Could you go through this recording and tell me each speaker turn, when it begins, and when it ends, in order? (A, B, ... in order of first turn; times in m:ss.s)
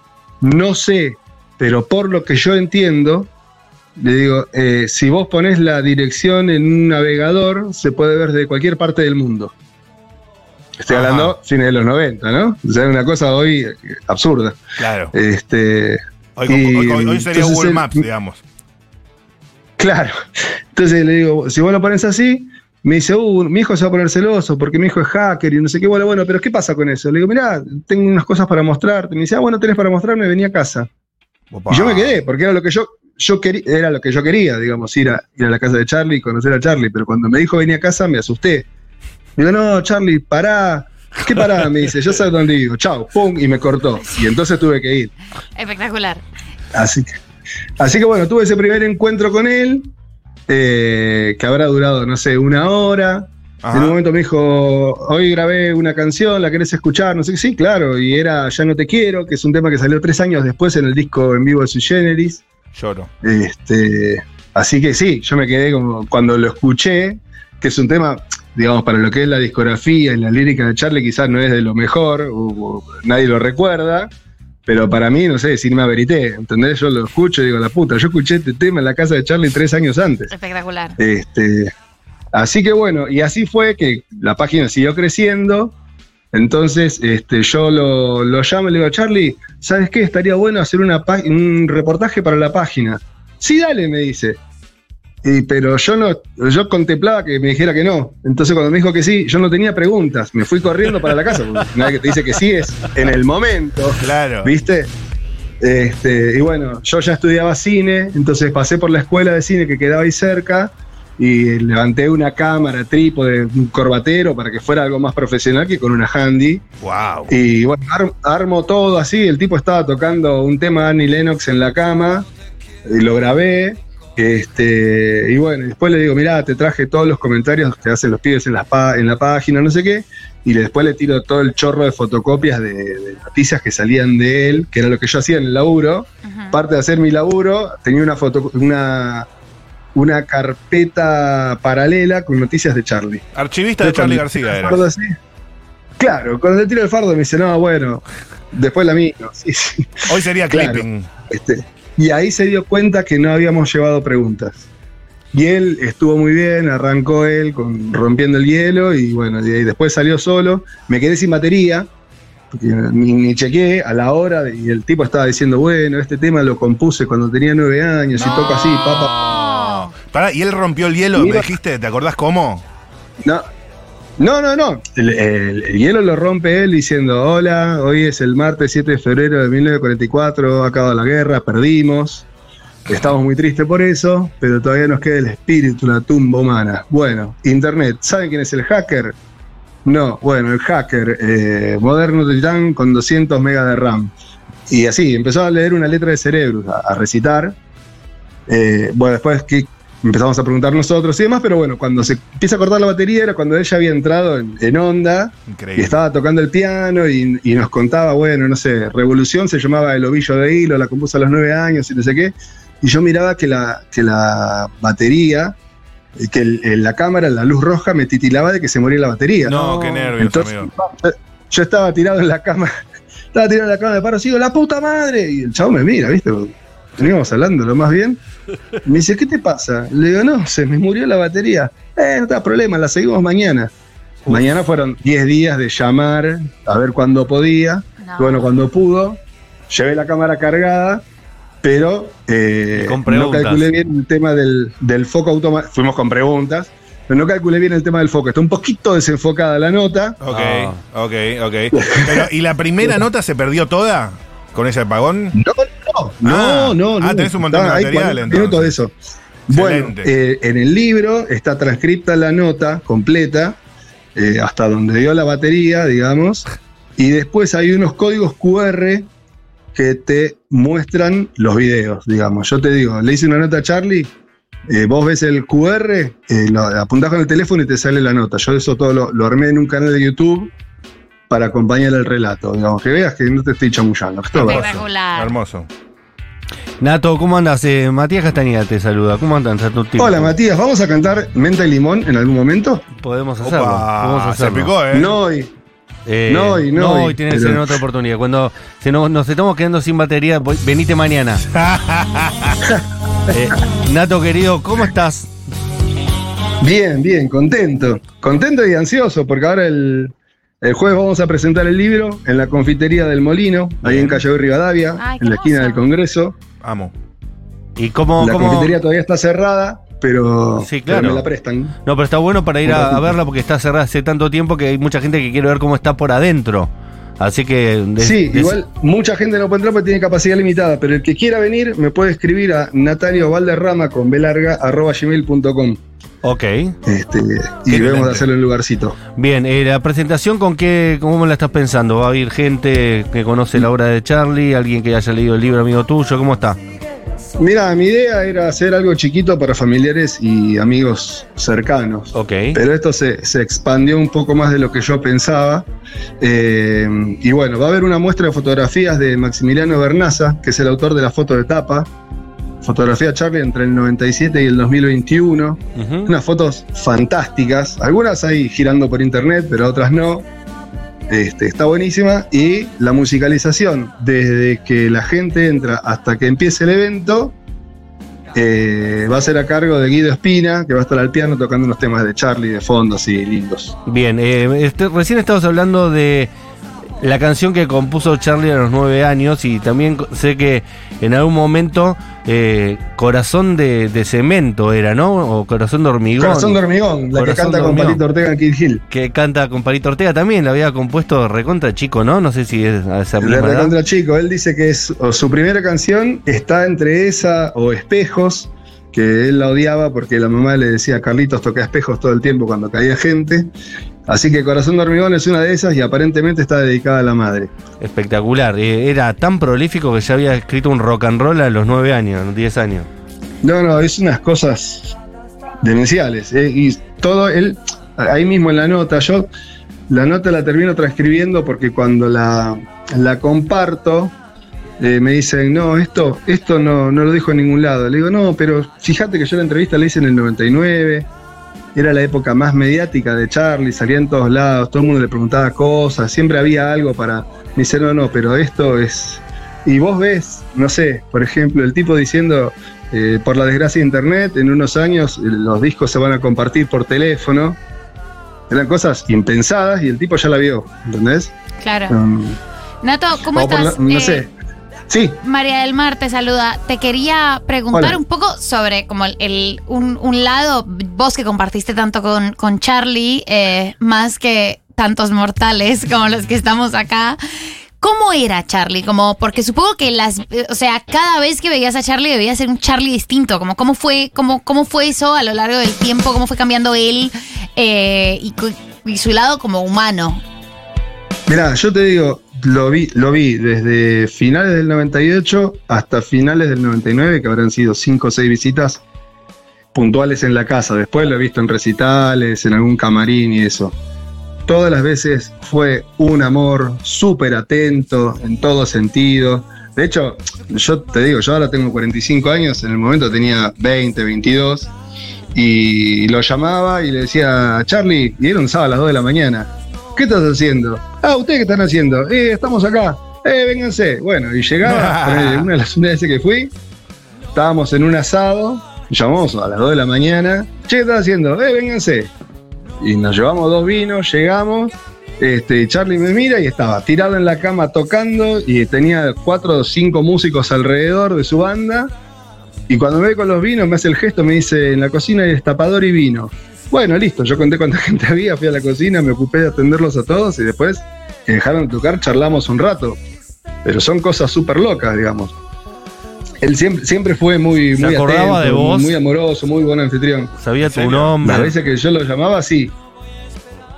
0:00.4-0:03.3 A
0:04.0-0:09.5 A
0:10.8-0:14.6 A
0:10.9-0:11.4 B
0:14.8-0:15.1 B
0:15.1-0:18.0 A
0:16.4-0:18.4 B
0:19.8-0:20.1 A
0:20.7-0:30.9 A
0:31.5-0:32.2 B
0:31.7-0:38.7 A
0:39.4-0:45.1 A
0:45.6-0:46.2 C
0:46.7-0:47.1 A
0:47.8-0:49.9 A
0:50.5-1:02.4 A
0:53.6-0:54.0 B
1:02.7-1:03.1 B
1:03.2-1:14.1 A
1:14.7-1:20.3 A
1:20.3-1:21.0 C
1:21.0-1:21.7 A
1:22.3-1:25.7 A
1:26.3-1:34.4 A
1:35.2-1:44.9 A
1:44.0-1:44.5 B
1:45.6-1:56.6 A
1:56.8-1:57.3 B
1:57.3-2:02.3 A
2:02.9-2:19.3 A
2:16.2-2:16.6 C
2:19.9-2:23.2 A
2:23.4-2:24.8 B
2:23.8-2:25.1 A
2:26.0-2:34.6 A
2:30.1-2:31.1 B
2:35.3-2:41.9 A
2:42.5-2:49.1 A
2:48.2-2:49.9 C
2:49.9-2:52.6 B
2:51.2-2:51.5 A
2:54.2-3:02.2 A
3:02.9-3:09.2 A
3:09.8-3:14.1 A
3:14.7-3:17.6 A
3:18.5-3:35.6 A
3:25.5-3:26.0 B
3:36.2-3:42.7 A
3:39.4-3:40.7 B
3:43.3-3:48.2 A
3:48.8-3:53.7 A
3:54.2-3:54.6 D
3:54.3-4:01.0 A
3:58.0-3:58.5 C
4:01.6-4:10.2 A
4:02.8-4:03.7 D
4:10.2-4:15.4 B
4:10.3-4:10.8 D
4:11.7-4:12.3 A
4:15.4-4:18.9 A
4:16.2-4:18.8 B
4:19.5-4:23.6 A
4:19.5-4:20.1 B
4:24.1-4:29.1 A
4:29.7-4:34.1 A
4:34.7-4:40.5 A
4:41.3-4:44.6 A
4:44.4-4:45.3 C
4:44.4-4:45.7 B
4:46.8-4:50.3 D
4:50.0-4:52.8 A
4:53.0-4:54.7 D
4:53.4-4:55.1 B
4:54.9-4:55.5 A
4:56.0-5:01.5 D
4:56.3-4:57.8 A
5:01.5-5:02.6 B
5:03.3-5:05.3 D
5:06.6-5:16.4 A
5:13.9-5:14.2 D
5:15.0-5:15.8 C
5:16.6-5:16.9 B
5:17.8-5:18.8 D
5:18.2-5:21.7 A
5:20.6-5:21.2 D
5:21.8-5:28.6 D
5:22.6-5:23.2 A
5:28.0-5:35.8 A
5:36.2-5:36.8 D
5:36.8-5:39.0 A
5:37.7-5:38.3 B
5:39.2-5:46.6 D
5:47.4-5:55.6 A
5:52.1-5:52.6 D
5:56.2-6:01.9 A
6:02.6-6:10.3 A
6:05.8-6:06.1 D
6:11.1-6:17.3 A
6:18.4-6:23.8 A
6:23.9-6:26.3 D
6:27.0-6:36.6 D
6:36.2-6:38.8 A
6:37.1-6:38.0 D
6:38.9-6:43.8 D
6:43.2-6:53.5 A
6:54.1-6:57.5 A
6:57.8-7:02.9 D
7:03.4-7:05.0 A
7:05.6-7:09.3 A
7:09.9-7:14.1 A
7:14.8-7:21.1 A
7:21.8-7:37.6 A
7:38.5-7:41.3 A
7:41.6-7:42.0 C
7:41.9-7:42.4 A
7:42.8-7:44.2 C
7:43.3-7:44.3 A
7:44.9-7:45.2 A
7:45.2-7:57.2 C
7:47.7-7:48.0 A
7:57.8-8:10.2 C
8:11.3-8:18.8 A
8:19.7-8:23.8 A
8:24.5-8:34.7 A
8:35.3-8:46.5 A
8:44.6-8:45.5 B
8:47.3-8:52.1 A
8:52.8-9:01.9 A
9:02.7-9:13.0 A
9:13.6-9:15.4 A
9:16.4-9:20.4 A
9:17.7-9:19.0 D
9:20.4-9:21.5 D
9:20.6-9:21.2 B
9:21.2-9:22.7 A